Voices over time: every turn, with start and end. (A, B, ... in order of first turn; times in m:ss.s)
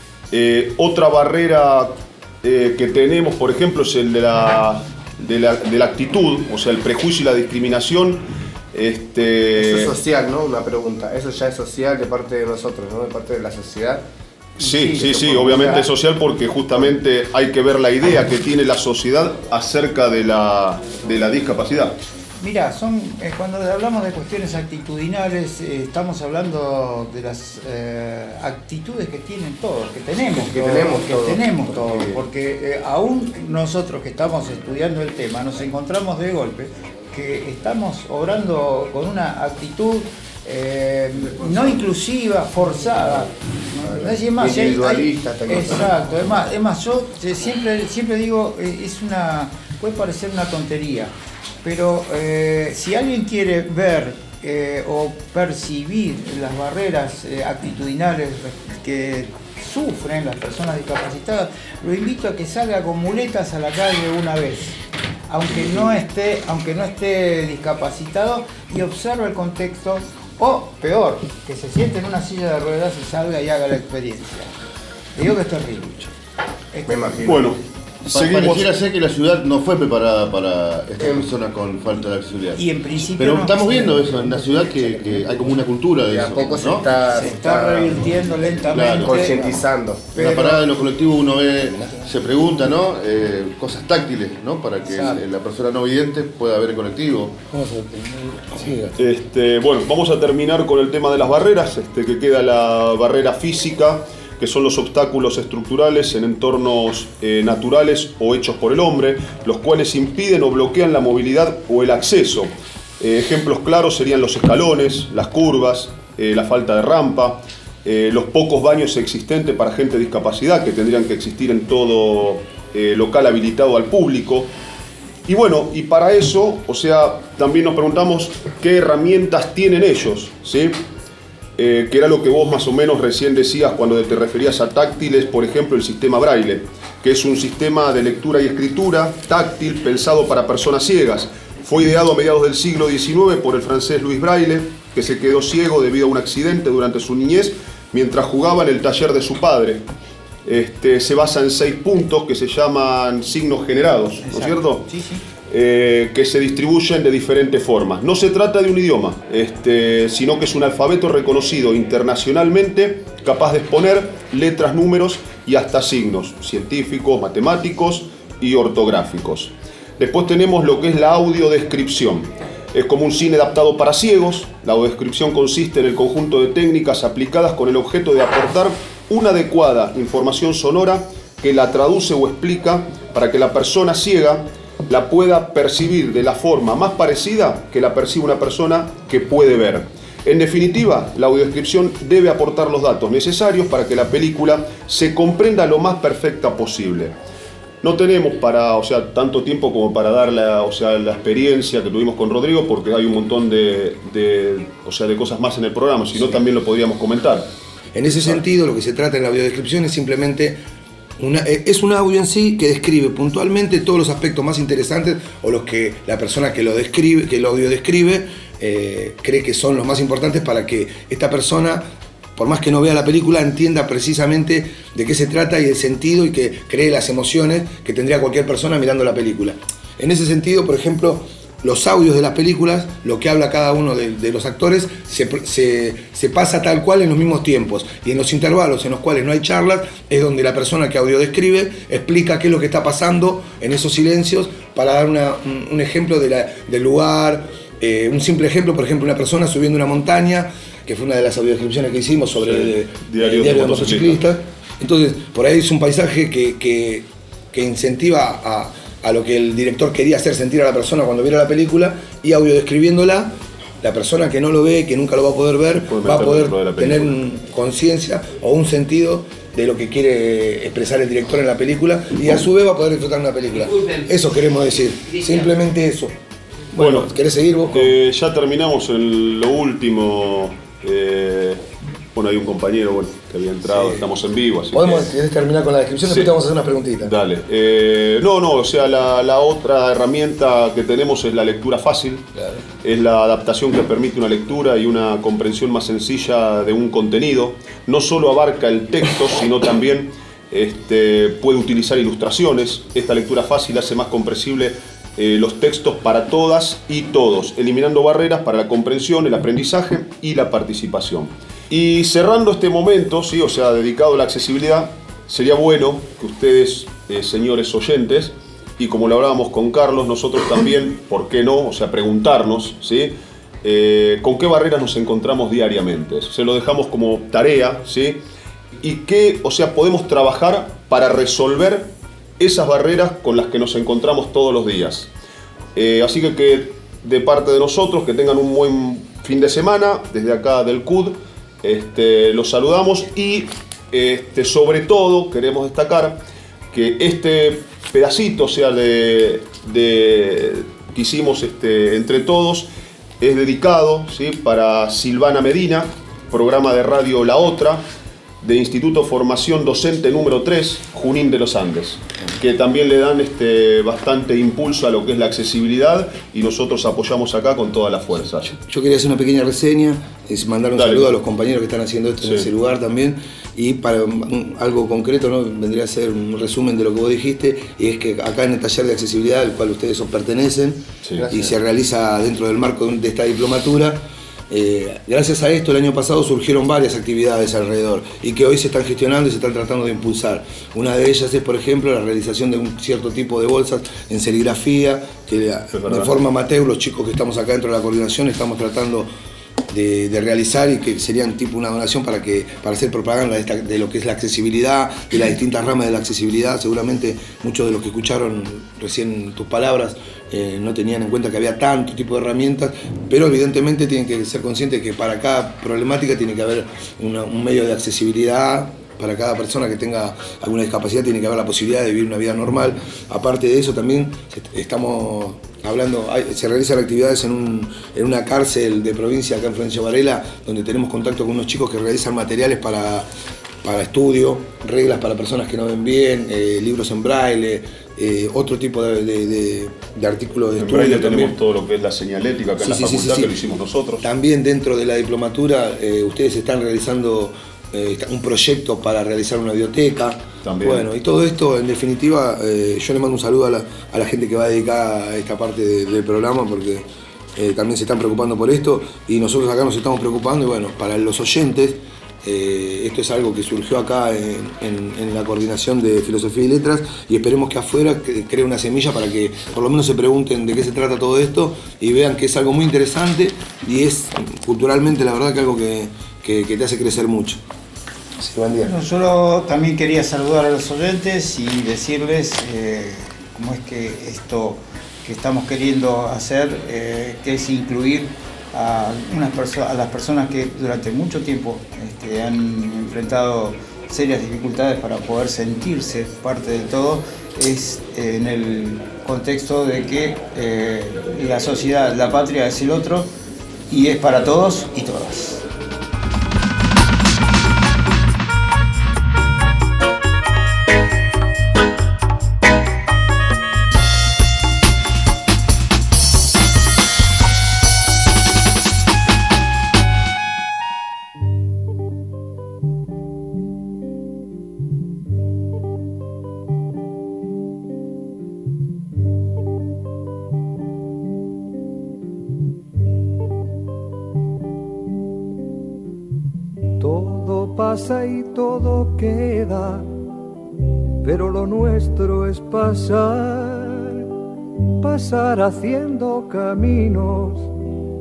0:00.3-0:10.0 A
0:09.6-0:14.0 B
0:14.6-0:15.8 C
0:14.6-0:22.0 A
0:14.9-0:15.9 B
0:22.4-1:14.5 C
0:30.4-0:32.2 B
0:41.4-0:41.8 B
0:43.9-0:46.1 B
1:15.2-1:16.1 C
1:16.7-1:17.4 C
1:16.9-1:17.5 B
1:17.2-1:18.7 A
1:18.1-1:26.9 D
1:21.0-1:21.3 B
1:22.6-1:24.8 C
1:26.0-1:28.0 B
1:27.1-1:29.6 C
1:28.7-1:29.6 D
1:28.9-1:30.1 B
1:30.1-1:37.4 D
1:30.2-1:30.6 C
1:37.5-1:39.0 E
1:39.0-2:04.5 A
2:05.3-2:10.7 A
2:11.6-2:29.8 A
2:30.5-2:34.9 A
2:34.2-2:35.2 C
2:35.5-3:17.1 A
3:17.8-3:27.5 A
3:28.0-3:30.6 E
3:28.1-3:28.4 A
3:31.2-3:41.9 E
3:42.4-4:36.1 E
4:12.4-4:14.2 A
4:25.8-4:27.2 A
4:36.7-4:38.0 E
4:36.8-4:37.1 A
4:37.7-4:45.2 A
4:43.6-4:44.1 E
4:44.7-4:47.2 E
4:46.1-4:46.3 A
4:47.0-4:52.3 A
4:52.8-5:28.2 A
5:28.8-5:35.1 A
5:35.8-5:46.2 A
5:46.7-5:52.7 A
5:53.2-5:57.8 A
5:58.4-6:08.6 A
6:08.7-6:39.1 E
6:10.8-6:11.2 A
6:12.2-6:12.5 A
6:21.2-6:21.5 B
6:35.7-6:36.2 A
6:39.7-7:13.1 E
7:13.6-7:21.4 E
7:20.6-7:24.1 A
7:22.6-7:23.4 E
7:24.0-7:57.4 E
7:30.4-7:30.9 A
7:58.2-7:58.7 E
7:58.6-8:23.1 C
8:23.7-8:25.4 C
8:56.8-8:59.9 F
9:01.0-9:04.1 F
9:04.8-9:07.5 F